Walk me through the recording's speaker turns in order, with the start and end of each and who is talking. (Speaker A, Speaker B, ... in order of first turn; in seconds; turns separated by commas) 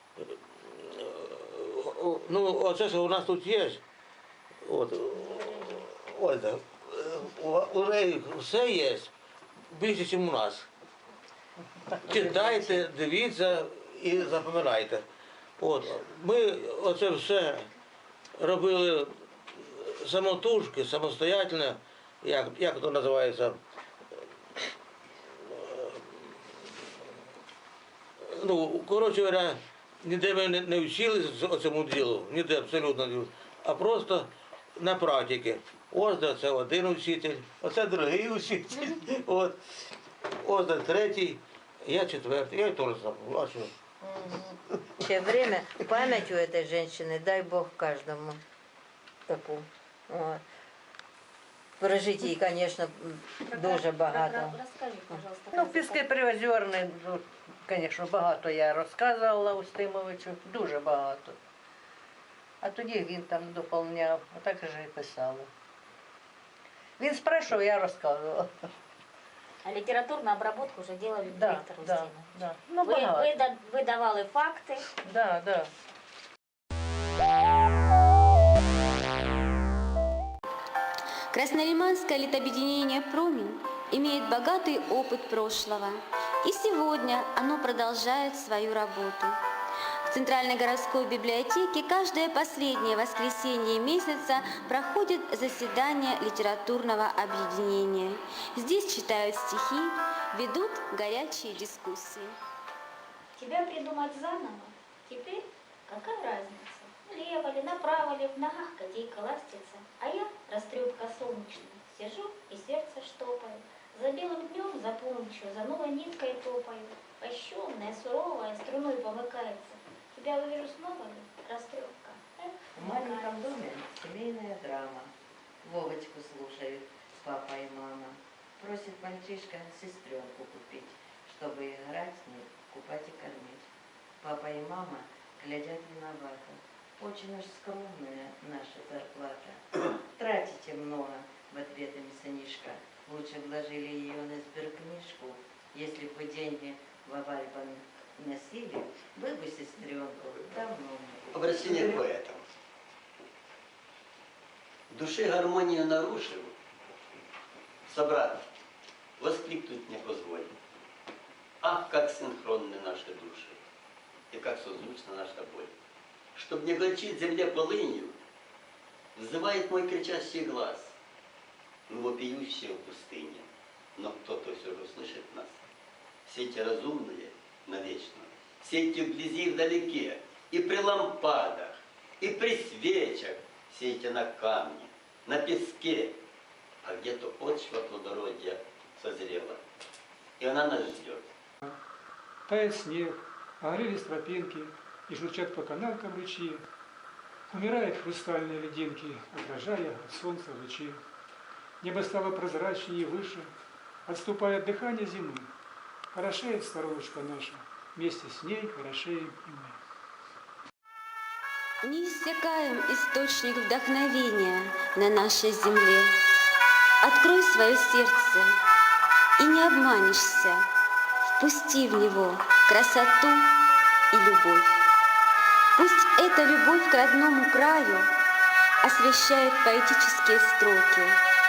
Speaker A: 0.2-3.8, Speaker A: 4.7-9.1, Speaker A: 9.7-10.7, Speaker B: 11.9-12.8, Speaker A: 12.0-15.0, Speaker A: 15.6-17.7, Speaker A: 18.4-23.6, Speaker A: 25.4-26.7, Speaker A: 28.2-39.6, Speaker A: 40.4-43.7, Speaker C: 45.0-48.4, Speaker C: 49.3-50.4, Speaker C: 51.8-54.6, Speaker D: 53.5-56.1, Speaker B: 55.5-61.4, Speaker B: 62.6-65.5, Speaker B: 67.0-68.5, Speaker D: 69.6-72.2, Speaker B: 71.3-73.4, Speaker D: 72.8-74.9, Speaker B: 75.0-75.7, Speaker E: 81.3-89.4, Speaker E: 90.1-102.4, Speaker D: 103.4-123.6, Speaker C: 122.8-125.1, Speaker C: 125.6-133.7, Speaker C: 134.2-152.0, Speaker F: 151.3-152.4, Speaker F: 154.9-156.6, Speaker F: 157.9-158.4, Speaker F: 159.2-160.5, Speaker F: 161.6-163.6, Speaker F: 164.3-165.7, Speaker F: 166.3-168.2, Speaker F: 169.2-170.9, Speaker F: 171.9-175.6, Speaker F: 176.3-186.2, Speaker F: 186.8-189.6, Speaker F: 190.4-191.3, Speaker G: 192.5-196.7, Speaker G: 197.5-201.0, Speaker G: 201.8-203.5, Speaker G: 204.1-205.5, Speaker G: 206.1-209.8, Speaker E: 211.8-216.2, Speaker E: 217.0-218.6, Speaker E: 219.4-220.6, Speaker E: 221.4-223.5, Speaker E: 224.1-224.8, Speaker E: 225.8-228.1, Speaker E: 228.8-231.2